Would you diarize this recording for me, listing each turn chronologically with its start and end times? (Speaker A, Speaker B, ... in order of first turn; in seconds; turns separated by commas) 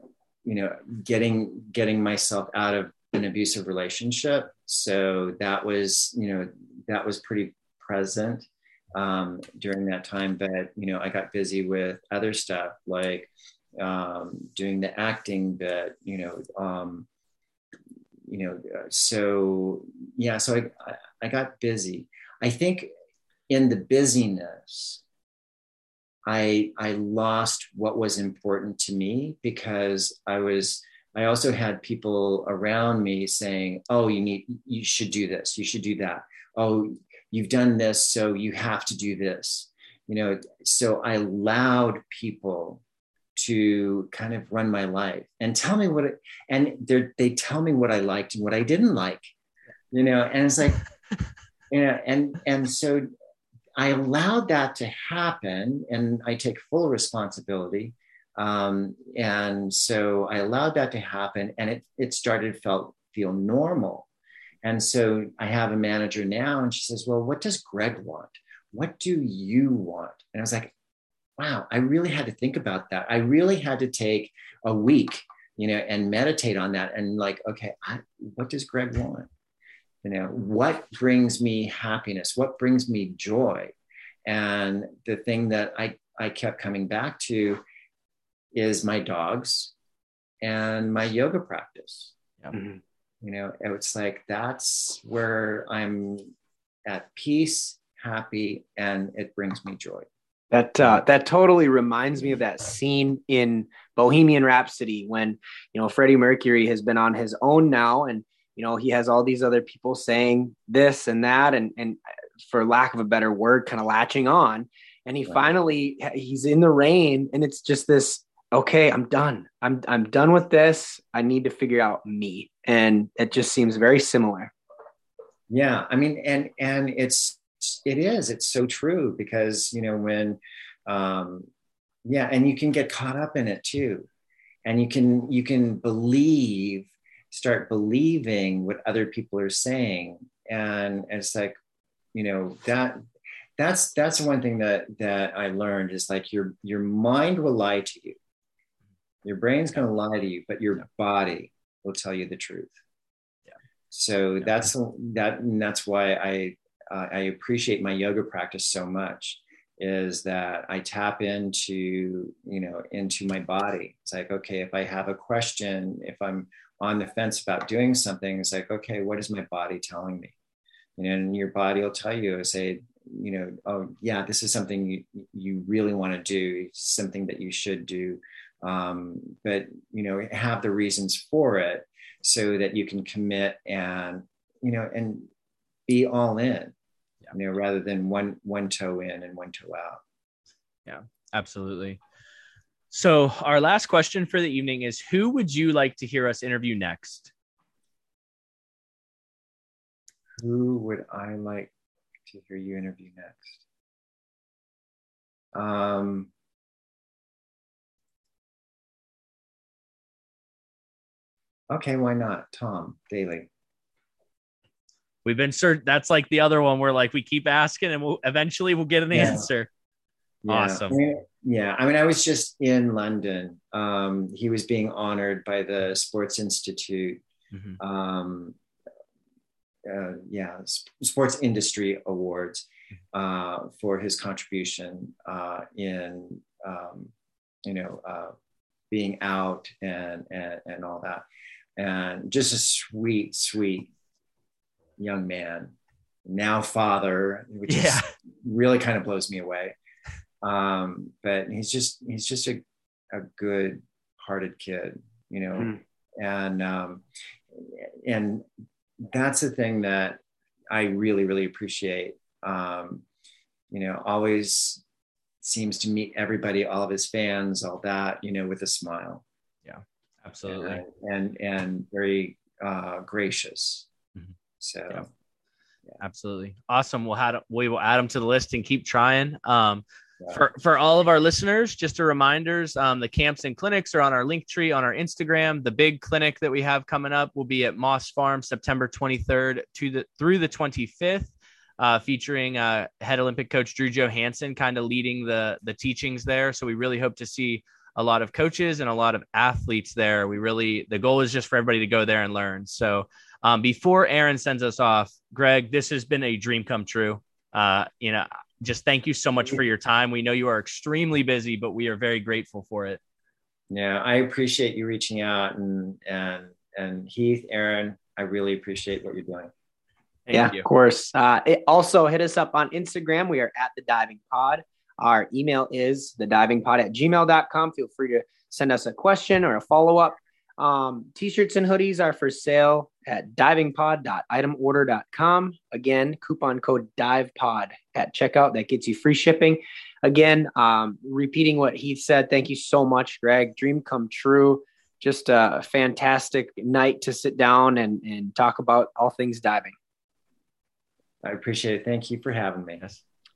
Speaker A: 0.4-17.1, Speaker A: 18.3-22.9, Speaker A: 23.5-25.0, Speaker A: 26.2-42.8, Speaker A: 43.4-49.3, Speaker A: 49.9-50.8, Speaker A: 51.7-53.1, Speaker A: 53.8-64.1, Speaker A: 64.6-70.7, Speaker A: 71.4-79.3, Speaker A: 80.0-83.7, Speaker A: 84.2-87.6, Speaker A: 88.5-89.7, Speaker A: 90.4-92.1, Speaker A: 93.2-96.3, Speaker A: 96.9-100.1, Speaker B: 100.5-124.5, Speaker A: 125.5-131.5, Speaker A: 132.0-134.1, Speaker A: 134.6-141.6, Speaker A: 142.1-143.0, Speaker A: 143.6-148.2, Speaker A: 149.2-152.7, Speaker A: 153.9-170.3, Speaker A: 171.0-185.3, Speaker A: 185.9-186.7, Speaker A: 187.3-190.0, Speaker C: 190.8-192.0, Speaker C: 192.9-197.3, Speaker A: 200.4-201.7, Speaker A: 202.3-203.6, Speaker A: 205.5-206.3, Speaker A: 211.7-213.5, Speaker C: 215.2-219.7, Speaker A: 219.1-219.5, Speaker A: 220.4-227.2, Speaker C: 220.5-221.0, Speaker C: 227.5-227.8, Speaker A: 227.8-228.6, Speaker A: 229.8-237.1, Speaker A: 237.6-238.3, Speaker A: 238.9-241.2, Speaker A: 241.8-243.9, Speaker A: 245.0-245.7, Speaker A: 246.2-249.7, Speaker C: 247.7-248.1, Speaker A: 250.4-258.4, Speaker A: 259.0-260.2, Speaker A: 260.7-263.0, Speaker A: 263.7-264.8, Speaker A: 265.4-269.2, Speaker C: 269.6-270.8, Speaker A: 270.4-273.9, Speaker A: 274.6-275.1, Speaker C: 276.0-313.0, Speaker A: 313.7-319.5, Speaker C: 320.2-320.6, Speaker B: 320.3-349.7, Speaker A: 351.2-353.0